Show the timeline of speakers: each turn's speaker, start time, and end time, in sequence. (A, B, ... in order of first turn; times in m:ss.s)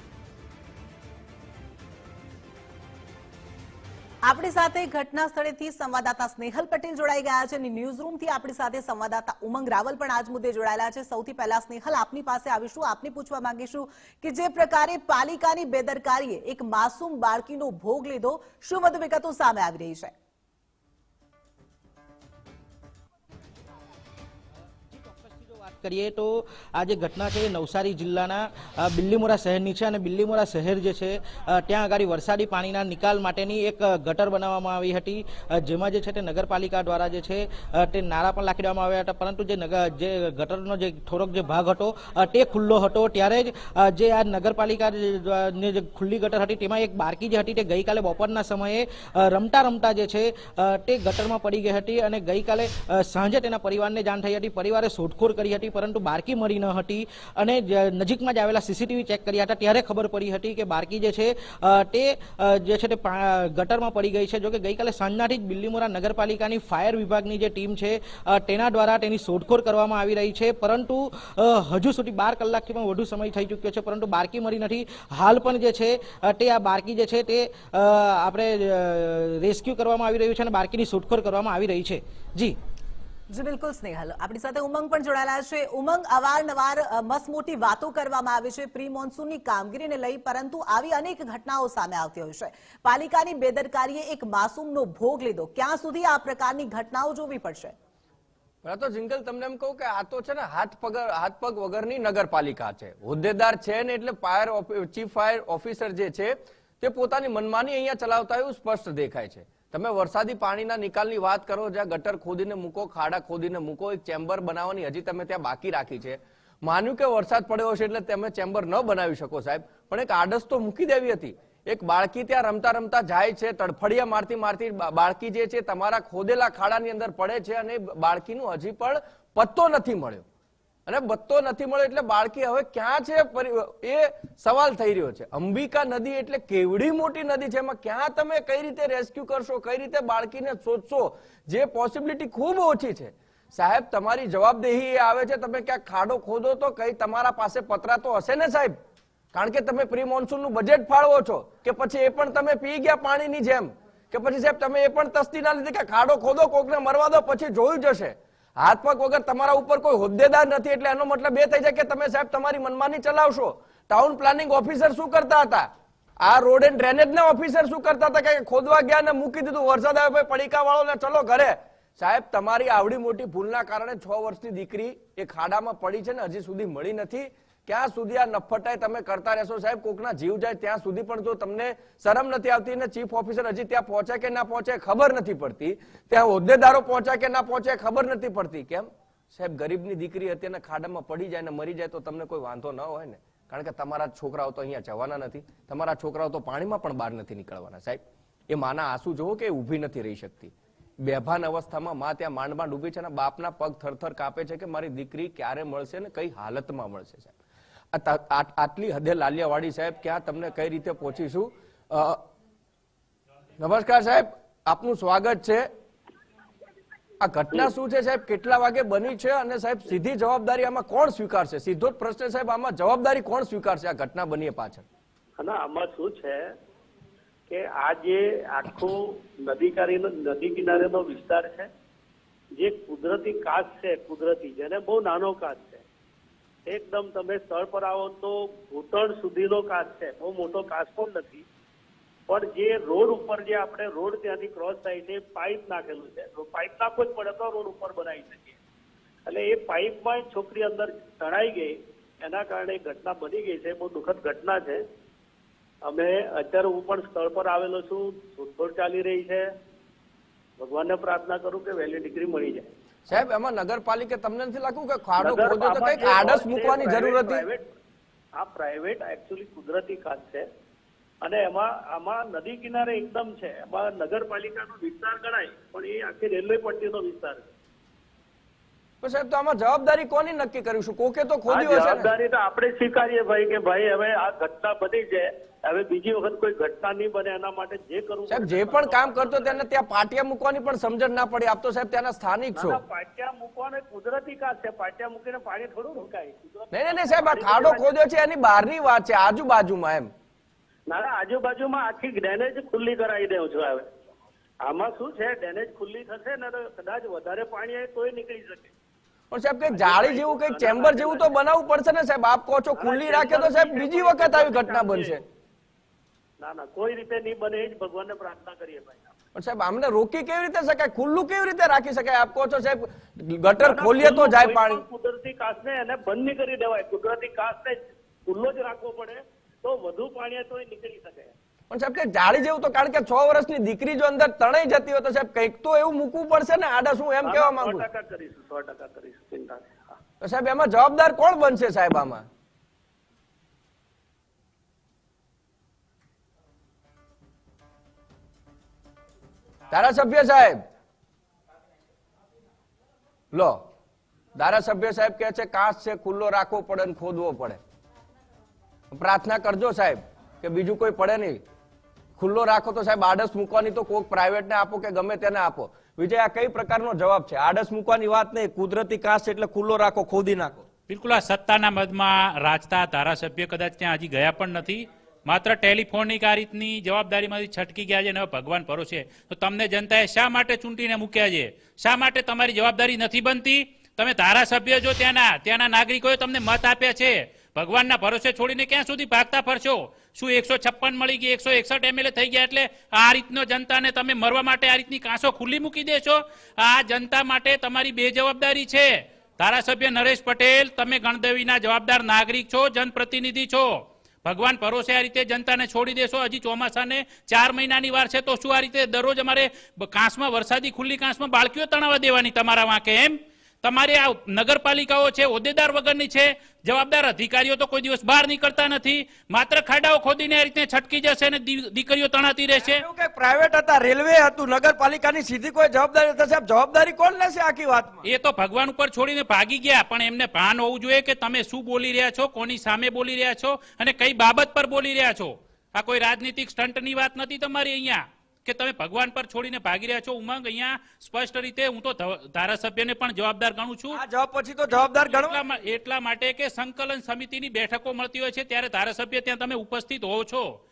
0:04.2-0:20.1 A
0:24.9-1:22.5 B
1:23.3-1:37.7 A
1:38.6-2:10.2 C
2:10.9-2:28.7 C
2:29.3-2:45.7 C
2:46.2-3:27.3 C
3:27.9-3:32.2 C
3:33.6-3:35.7 C
3:37.2-3:44.8 C
3:45.4-3:46.5 D
3:47.5-3:51.7 D
3:52.6-3:55.8 D
3:56.7-4:01.4 D
4:02.3-4:08.6 D
4:09.2-4:14.8 D
4:15.8-4:19.5 D
4:20.6-4:22.7 D
4:23.1-4:27.4 C
4:25.2-4:27.7 D
4:28.3-4:30.5 D
4:31.2-4:37.5 D
4:39.0-4:42.1 C
4:41.5-4:49.7 D
4:48.3-4:52.8 C
4:52.5-4:57.9 D
4:56.7-5:00.1 C
5:00.9-5:04.0 D
5:04.6-5:08.7 D
5:09.3-5:15.2 C
5:09.7-5:11.3 D
5:12.7-5:15.2 D
5:16.4-5:19.1 D
5:19.3-5:24.8 C
5:23.6-5:31.3 D
5:31.7-5:37.8 C
5:37.2-5:40.0 D
5:40.2-5:42.2 C
5:49.7-5:50.6 C
5:53.3-5:53.6 C
5:54.4-5:57.6 C
5:58.9-6:01.4 C
6:02.2-6:10.6 C
6:10.9-6:43.7 E
6:44.2-7:02.8 E
7:02.6-7:08.1 C
7:08.0-7:24.0 E
7:23.9-7:25.4 C
7:25.1-7:30.5 E